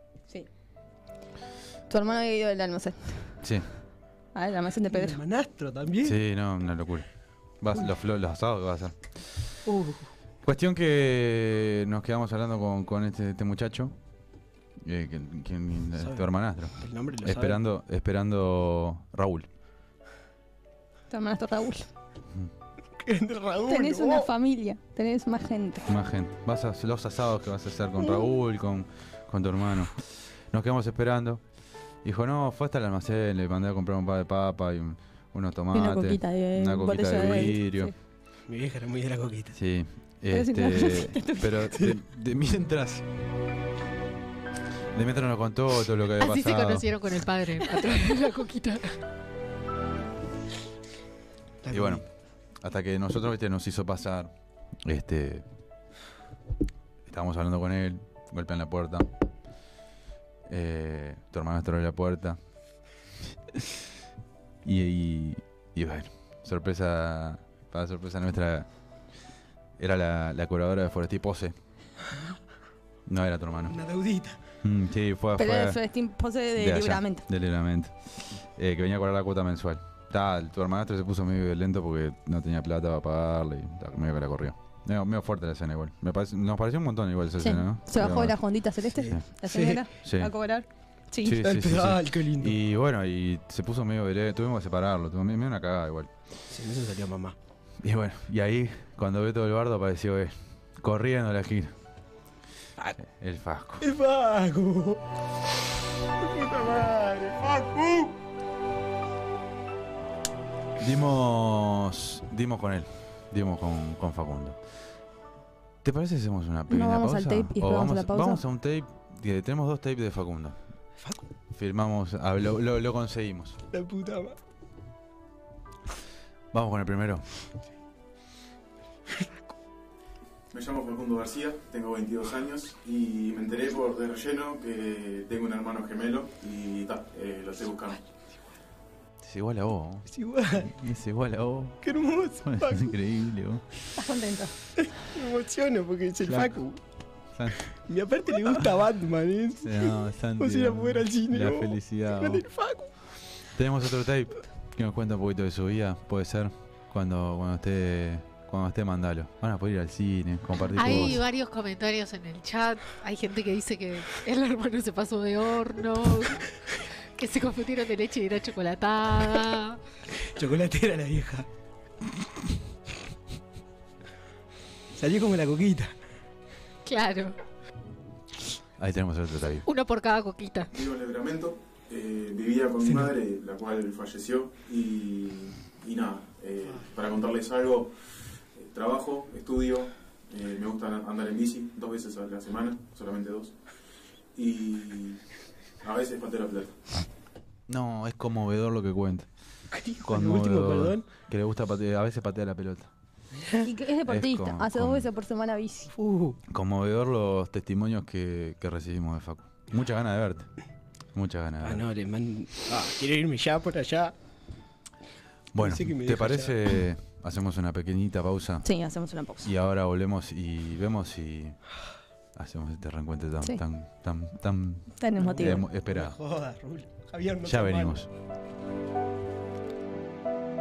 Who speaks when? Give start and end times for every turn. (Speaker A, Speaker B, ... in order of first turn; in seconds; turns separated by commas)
Speaker A: 1.9-3.3, Speaker A: 4.3-5.2, Speaker B: 4.9-6.2, Speaker C: 6.0-7.1, Speaker C: 7.6-9.0, Speaker B: 9.7-10.1, Speaker C: 10.4-13.9, Speaker C: 14.8-19.5, Speaker B: 16.0-16.2, Speaker B: 16.8-17.6, Speaker A: 21.1-21.9, Speaker B: 23.0-24.3, Speaker A: 23.7-25.9, Speaker C: 25.9-31.4, Speaker C: 32.0-37.9, Speaker A: 35.7-37.9, Speaker B: 38.5-39.6, Speaker C: 39.5-43.0, Speaker A: 40.3-41.6, Speaker C: 44.9-46.9, Speaker D: 46.2-48.9, Speaker B: 51.6-52.0, Speaker C: 51.7-52.0, Speaker C: 52.6-54.3, Speaker C: 54.8-55.4, Speaker C: 57.0-59.1, Speaker C: 60.5-62.4, Speaker C: 64.6-68.7, Speaker C: 69.8-71.5, Speaker C: 73.0-73.8, Speaker B: 73.7-74.4, Speaker C: 74.6-75.8, Speaker A: 75.4-77.2, Speaker C: 76.6-77.9, Speaker C: 78.5-88.4, Speaker A: 87.4-91.4, Speaker B: 89.0-89.8, Speaker C: 90.0-90.3, Speaker C: 91.2-96.1, Speaker B: 91.3-92.5, Speaker B: 96.5-97.3, Speaker C: 97.8-101.7, Speaker C: 103.0-103.8, Speaker B: 103.8-105.0, Speaker B: 106.2-108.1, Speaker C: 110.8-114.6, Speaker C: 115.8-120.6, Speaker A: 116.7-118.4, Speaker C: 121.5-123.6, Speaker B: 123.7-124.4, Speaker C: 126.5-127.2, Speaker E: 130.5-138.0, Speaker C: 139.2-140.1, Speaker B: 140.1-140.7, Speaker C: 140.6-141.8, Speaker B: 141.8-142.9, Speaker C: 142.4-143.6, Speaker A: 144.0-144.5, Speaker B: 144.8-146.8, Speaker C: 146.3-146.5, Speaker B: 147.9-152.9, Speaker C: 149.6-152.4, Speaker C: 153.6-161.2, Speaker D: 160.7-166.4, Speaker D: 167.2-169.8, Speaker B: 170.3-171.5, Speaker B: 174.9-175.9, Speaker D: 176.8-177.3, Speaker C: 178.8-179.7, Speaker D: 179.7-180.7, Speaker E: 180.7-188.0, Speaker B: 182.8-183.1, Speaker E: 188.5-193.5, Speaker E: 194.3-195.2, Speaker E: 195.8-196.8, Speaker C: 197.7-199.3, Speaker B: 199.7-201.1, Speaker C: 200.0-202.9, Speaker A: 203.6-205.9, Speaker C: 204.1-205.1, Speaker B: 205.9-206.4, Speaker C: 206.5-210.5, Speaker C: 211.1-211.8, Speaker B: 211.6-214.1, Speaker C: 215.5-218.7, Speaker B: 215.6-216.6, Speaker A: 218.6-219.5, Speaker C: 219.4-221.6, Speaker C: 222.3-226.2, Speaker A: 225.0-225.6, Speaker B: 225.3-228.0, Speaker C: 227.4-228.1